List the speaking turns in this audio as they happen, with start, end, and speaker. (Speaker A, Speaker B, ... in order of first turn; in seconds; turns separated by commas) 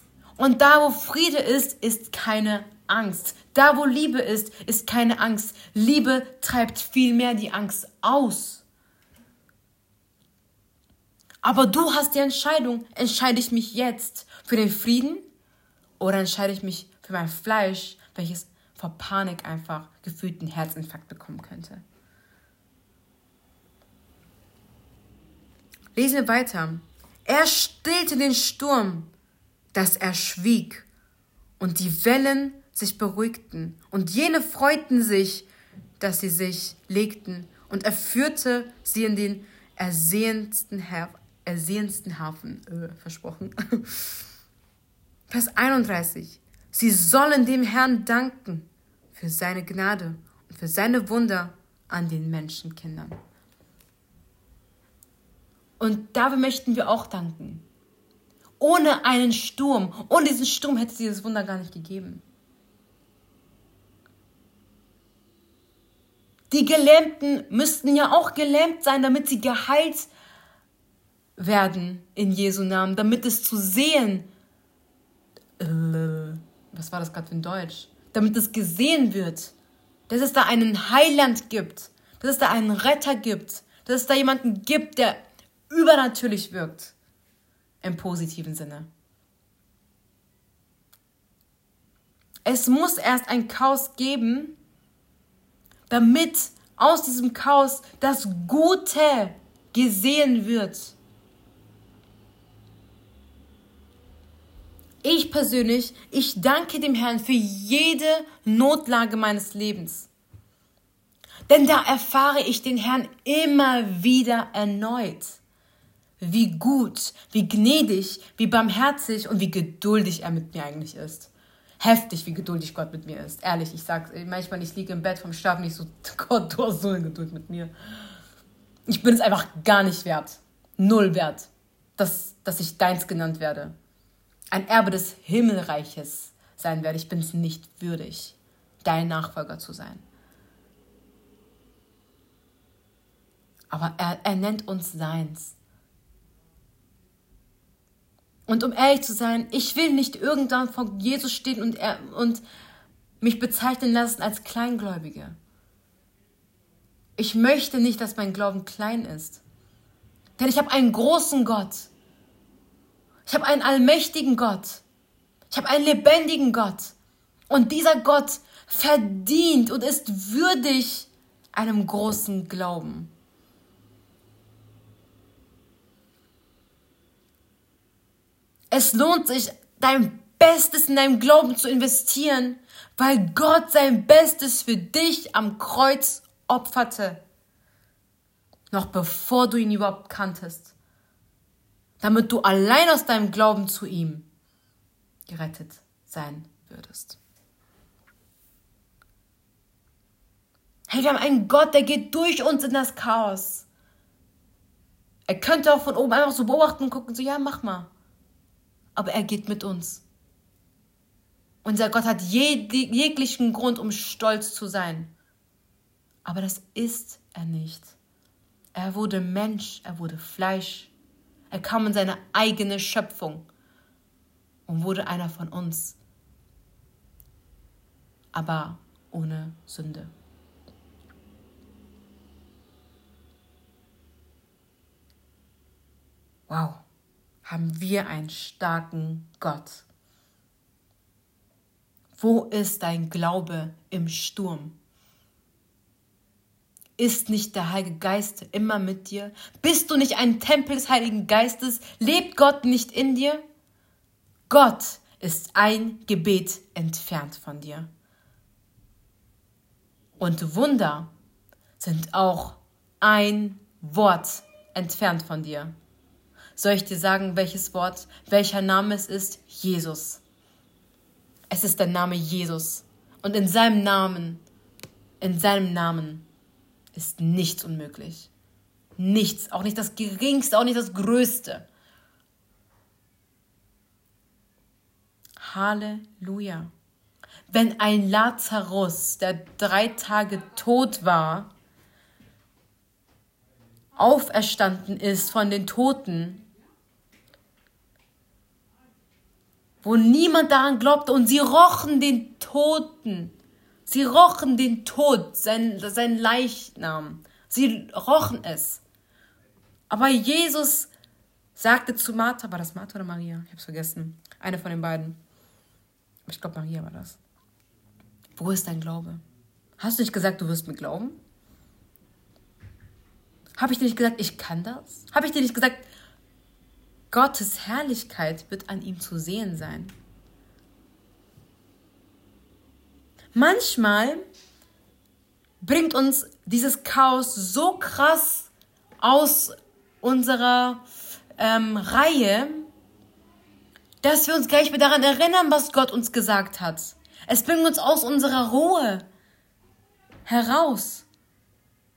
Speaker A: 0.4-8.6, Speaker A: 11.4-15.2, Speaker A: 16.0-21.8, Speaker A: 25.9-29.1, Speaker A: 29.7-30.9, Speaker A: 31.6-35.5, Speaker A: 36.0-44.0, Speaker A: 45.3-53.2, Speaker A: 55.8-57.6, Speaker A: 58.6-62.2, Speaker A: 66.5-70.1, Speaker A: 71.4-74.3, Speaker A: 75.6-79.5, Speaker A: 80.1-86.9, Speaker A: 87.8-88.9, Speaker A: 92.4-94.5, Speaker A: 95.9-101.0, Speaker A: 105.0-110.1, Speaker A: 111.5-115.4, Speaker A: 116.2-127.7, Speaker A: 128.9-133.7, Speaker A: 134.5-140.0, Speaker A: 143.7-145.6, Speaker A: 148.5-152.4, Speaker A: 153.2-155.4, Speaker A: 157.2-159.4, Speaker A: 160.4-161.9, Speaker A: 163.2-164.8, Speaker A: 165.5-166.9, Speaker A: 167.5-173.1, Speaker A: 178.7-187.2, Speaker A: 188.7-190.7, Speaker A: 192.0-194.3, Speaker A: 195.3-197.2, Speaker A: 200.9-203.7, Speaker A: 205.3-207.9, Speaker A: 208.9-210.0, Speaker A: 211.6-215.1, Speaker A: 216.2-217.9, Speaker A: 218.7-220.9, Speaker A: 221.5-223.5, Speaker A: 224.7-226.0, Speaker A: 228.3-230.1, Speaker A: 236.5-236.8, Speaker A: 237.4-239.8, Speaker A: 242.1-244.8, Speaker A: 247.0-253.4, Speaker A: 254.5-257.9, Speaker A: 260.2-261.1, Speaker A: 261.8-265.7, Speaker A: 266.6-270.2, Speaker A: 271.5-274.4, Speaker A: 275.2-276.2, Speaker A: 276.9-278.3, Speaker A: 279.0-281.7, Speaker A: 285.4-286.7, Speaker A: 287.5-291.5, Speaker A: 293.9-296.4, Speaker A: 299.8-303.3, Speaker A: 303.9-308.8, Speaker A: 309.9-310.9, Speaker A: 311.5-315.2, Speaker A: 316.2-317.2, Speaker A: 318.4-319.2, Speaker A: 319.8-321.2, Speaker A: 323.6-325.9, Speaker A: 327.1-329.9, Speaker A: 333.3-334.2, Speaker A: 335.6-338.5, Speaker A: 339.0-340.8, Speaker A: 341.4-342.7, Speaker A: 344.0-349.0, Speaker A: 350.2-351.1